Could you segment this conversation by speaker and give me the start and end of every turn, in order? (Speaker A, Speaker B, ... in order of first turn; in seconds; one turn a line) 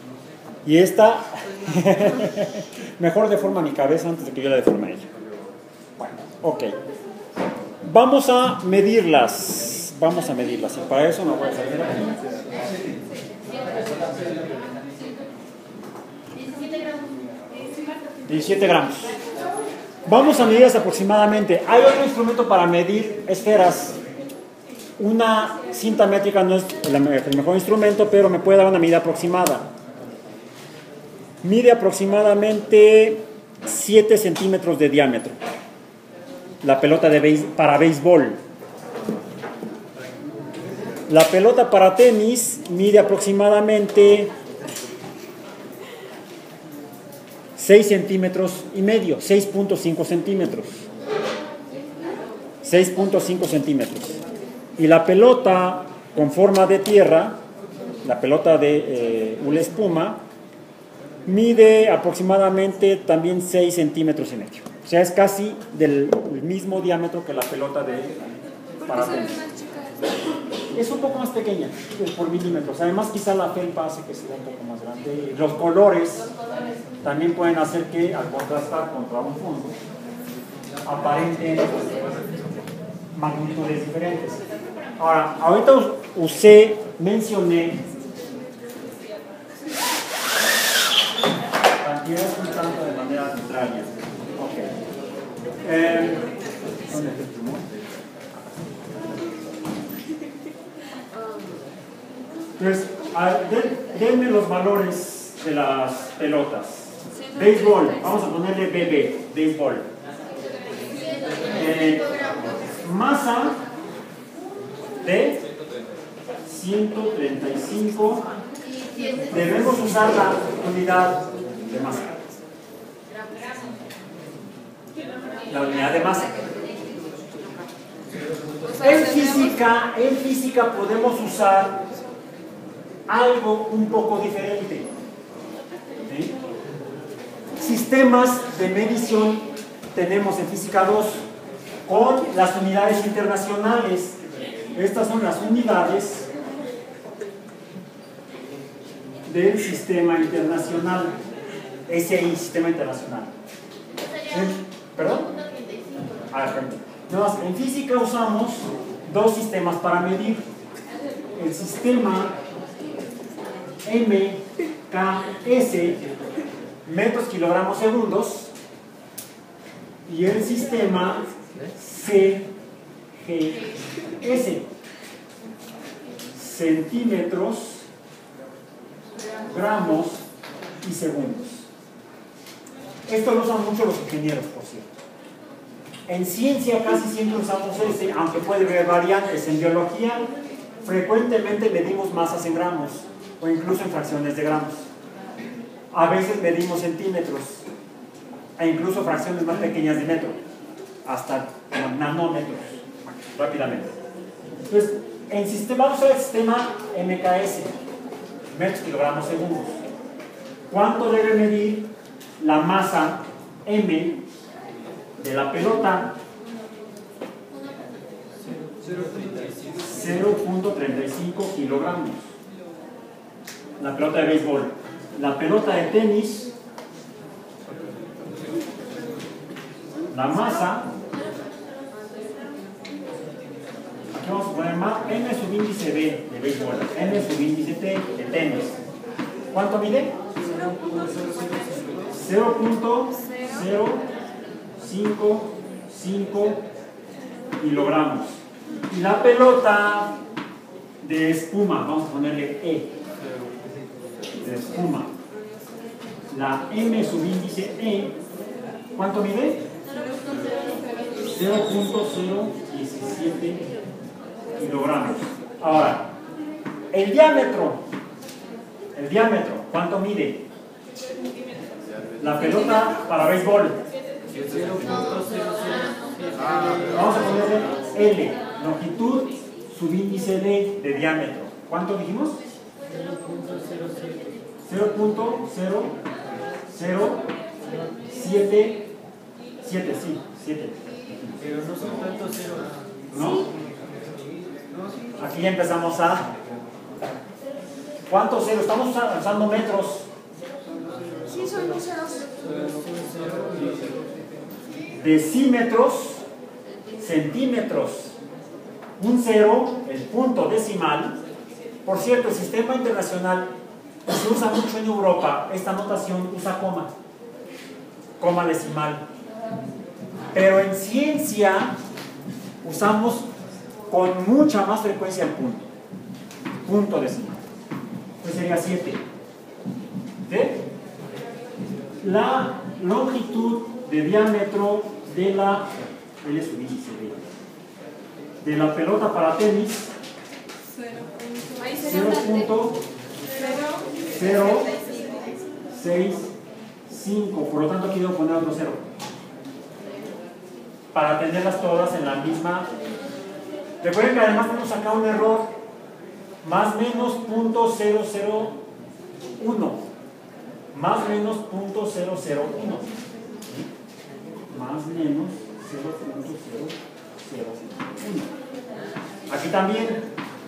Speaker A: 0.7-5.1
Speaker A: 6.0-6.8
Speaker A: 7.8-12.2
Speaker A: 18.3-19.2
Speaker A: 20.1-24.0
Speaker A: 25.0-29.7
Speaker A: 31.4-35.4
Speaker A: 36.6-38.4
Speaker A: 41.1-44.3
Speaker A: 47.6-50.9
Speaker A: 52.6-54.2
Speaker A: 54.8-57.4
Speaker A: 58.0-60.2
Speaker A: 61.3-68.3
Speaker B: 68.8-70.3
Speaker A: 68.8-69.4
Speaker A: 70.7-76.3
Speaker A: 77.0-79.8
Speaker A: 80.8-82.0
Speaker A: 83.2-84.4
Speaker A: 85.0-87.8
Speaker A: 91.8-94.7
Speaker A: 95.6-96.3
Speaker A: 96.9-97.7
Speaker A: 102.6-109.9
Speaker A: 111.5-112.1
Speaker A: 112.8-113.6
Speaker A: 115.0-115.4
Speaker A: 116.5-118.2
Speaker A: 119.3-122.2
Speaker A: 125.5-126.3
Speaker A: 128.8-131.9
Speaker A: 133.1-134.9
Speaker A: 136.1-136.3
Speaker A: 137.6-141.3
Speaker A: 141.9-144.2
Speaker A: 144.7-146.3
Speaker A: 149.3-151.2
Speaker A: 151.9-153.3
Speaker A: 154.3-155.3
Speaker A: 156.3-160.4
Speaker A: 161.3-162.3
Speaker A: 163.8-166.0
Speaker A: 166.9-168.5
Speaker A: 170.1-172.5
Speaker A: 173.2-174.7
Speaker A: 176.3-177.8
Speaker A: 179.5-180.3
Speaker A: 180.8-181.7
Speaker A: 183.1-184.9
Speaker A: 186.1-190.3
Speaker A: 190.8-194.9
Speaker A: 195.9-197.7
Speaker A: 198.6-200.4
Speaker A: 201.1-202.8
Speaker A: 203.3-203.9
Speaker A: 204.7-207.7
Speaker A: 208.5-209.8
Speaker A: 210.7-214.3
Speaker A: 215.2-216.2
Speaker C: 218.4-219.8
Speaker A: 219.8-222.2
Speaker A: 223.8-226.5
Speaker A: 230.1-230.9
Speaker A: 234.2-238.8
Speaker A: 239.5-240.2
Speaker C: 240.3-242.1
Speaker A: 242.1-244.1
Speaker A: 244.8-246.7
Speaker A: 247.6-248.4
Speaker A: 248.9-250.2
Speaker A: 251.0-252.9
Speaker A: 254.4-255.1
Speaker A: 256.3-258.2
Speaker A: 259.0-259.7
Speaker B: 260.7-261.1
Speaker A: 261.3-263.7
Speaker A: 264.6-266.1
Speaker A: 266.9-267.8
Speaker A: 268.9-270.4
Speaker A: 272.2-273.8
Speaker C: 274.3-277.0
Speaker A: 276.9-282.4
Speaker C: 282.9-284.4
Speaker A: 284.7-286.0
Speaker A: 286.7-287.2
Speaker A: 288.1-288.9
Speaker A: 289.6-291.4
Speaker C: 291.4-294.9
Speaker A: 293.1-293.5
Speaker A: 295.2-296.3
Speaker A: 298.1-300.1
Speaker B: 301.3-302.3
Speaker C: 302.4-304.1
Speaker A: 305.0-306.2
Speaker A: 307.0-308.1
Speaker A: 309.0-311.2
Speaker A: 311.9-313.5
Speaker A: 314.1-316.9
Speaker A: 318.2-319.1
Speaker A: 320.3-321.8
Speaker A: 322.6-323.3
Speaker A: 323.9-325.7
Speaker A: 326.6-327.4
Speaker A: 328.2-329.0
Speaker A: 330.2-330.6
Speaker A: 332.0-337.2
Speaker A: 338.4-339.9
Speaker B: 341.5-342.1
Speaker A: 341.8-342.8
Speaker B: 343.3-343.9
Speaker A: 344.1-344.7
Speaker B: 344.7-345.3
Speaker A: 345.7-346.3
Speaker A: 346.9-348.9
Speaker A: 350.9-352.7
Speaker A: 353.8-355.5
Speaker A: 356.4-358.6
Speaker A: 359.4-359.9
Speaker A: 360.7-362.9
Speaker A: 364.5-368.3
Speaker A: 369.3-370.0